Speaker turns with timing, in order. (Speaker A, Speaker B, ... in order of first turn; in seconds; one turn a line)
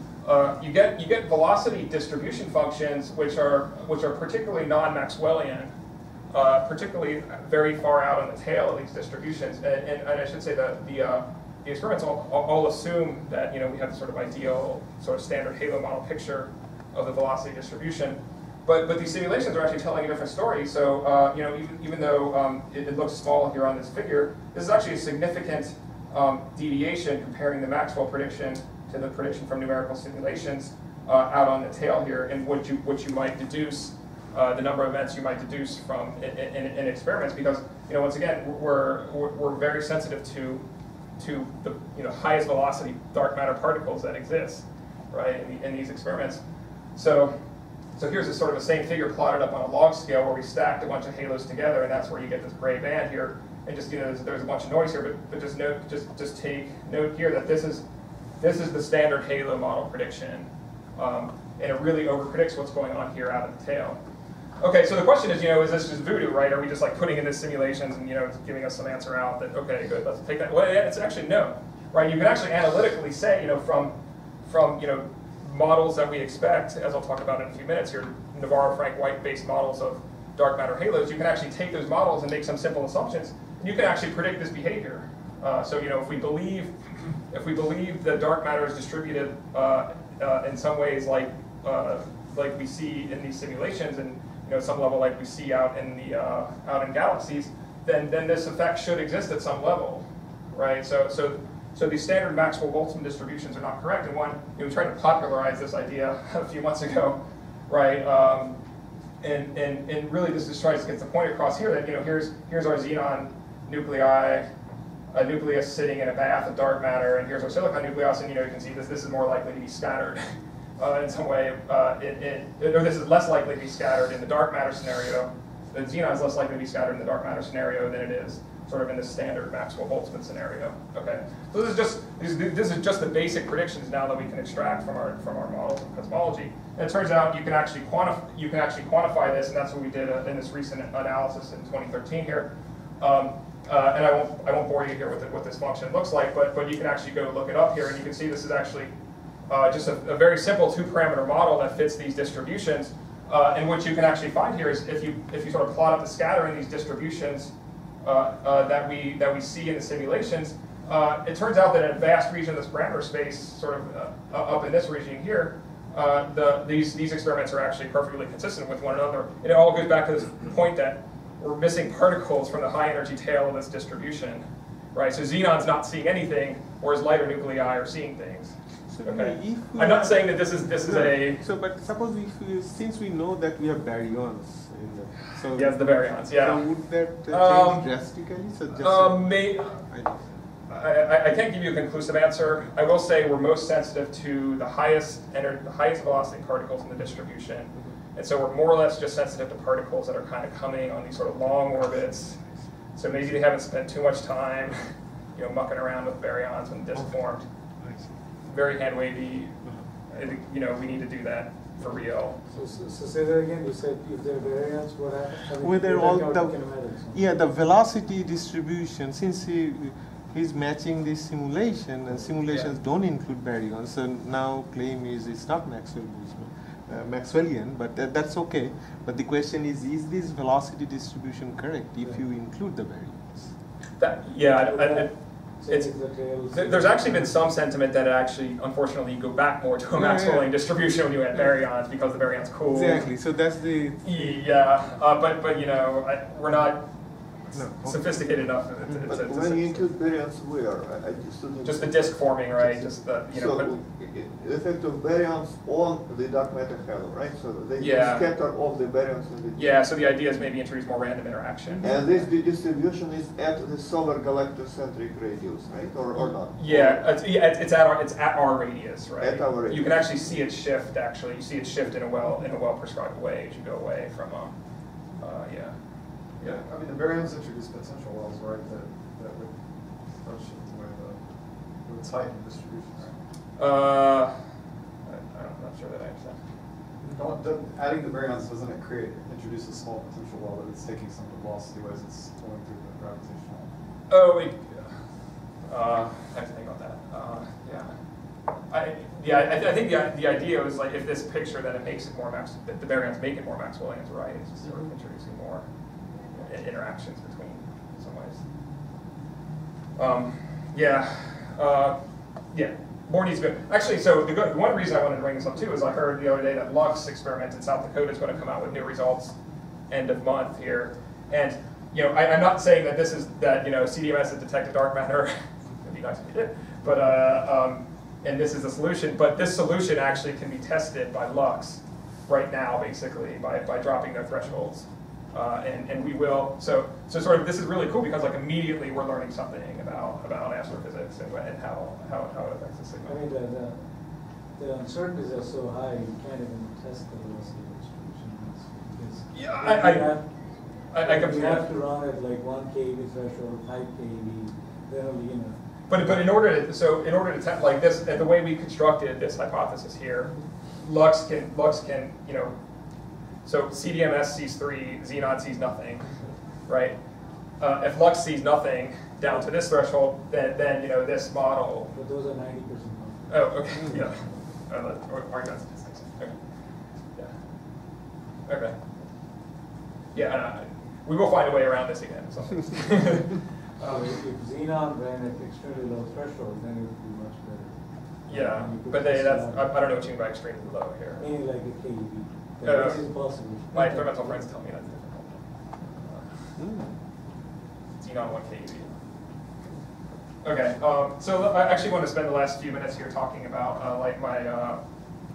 Speaker A: 0.2-5.7
Speaker A: 6.3-40.6
Speaker A: 41.2-46.4
Speaker A: 47.0-47.3
Speaker A: 48.0-57.9
Speaker A: 58.4-64.0
Speaker A: 64.6-74.0
Speaker A: 74.5-86.7
Speaker A: 87.3-108.6
Speaker A: 109.2-114.5
Speaker A: 115.1-120.2
Speaker A: 120.8-148.9
Speaker A: 149.5-157.5
Speaker A: 158.0-181.4
Speaker B: 178.9-190.2
Speaker A: 185.5-187.9
Speaker A: 188.7-189.8
Speaker A: 190.7-202.4
Speaker A: 203.0-204.8
Speaker A: 205.3-207.5
Speaker A: 208.4-212.4
Speaker C: 212.5-217.2
Speaker B: 215.5-233.5
Speaker C: 222.1-222.4
Speaker A: 222.5-222.7
Speaker A: 234.0-243.2
Speaker C: 234.6-237.4
Speaker B: 239.9-240.7
Speaker B: 242.7-244.4
Speaker A: 244.0-246.9
Speaker A: 247.4-249.9
Speaker B: 247.5-249.1
Speaker D: 249.1-260.4
Speaker A: 251.6-253.7
Speaker A: 257.8-258.3
Speaker A: 259.6-262.3
Speaker D: 261.8-267.0
Speaker A: 266.6-274.6
Speaker D: 269.2-270.1
Speaker A: 275.2-275.8
Speaker E: 276.4-281.3
Speaker E: 281.8-283.2
Speaker A: 283.6-284.4
Speaker A: 285.1-286.4
Speaker E: 287.0-293.7
Speaker A: 294.1-294.8
Speaker A: 295.7-297.9
Speaker A: 298.7-305.6
Speaker A: 306.3-308.4
Speaker A: 310.0-312.0
Speaker A: 312.5-319.4
Speaker A: 319.9-343.2
Speaker C: 343.1-343.9
Speaker C: 344.5-356.2
Speaker A: 349.3-350.1
Speaker A: 350.9-351.7
Speaker A: 355.9-362.6
Speaker A: 363.4-366.1
Speaker A: 366.7-367.0
Speaker A: 367.6-371.9
Speaker C: 371.9-373.6
Speaker A: 373.3-376.4
Speaker B: 373.8-374.1
Speaker A: 378.5-378.8
Speaker A: 380.1-384.1
Speaker C: 383.8-389.7
Speaker A: 388.3-391.2
Speaker C: 391.2-394.5
Speaker A: 392.6-396.5
Speaker B: 396.6-397.0
Speaker A: 398.0-398.9
Speaker A: 400.4-404.8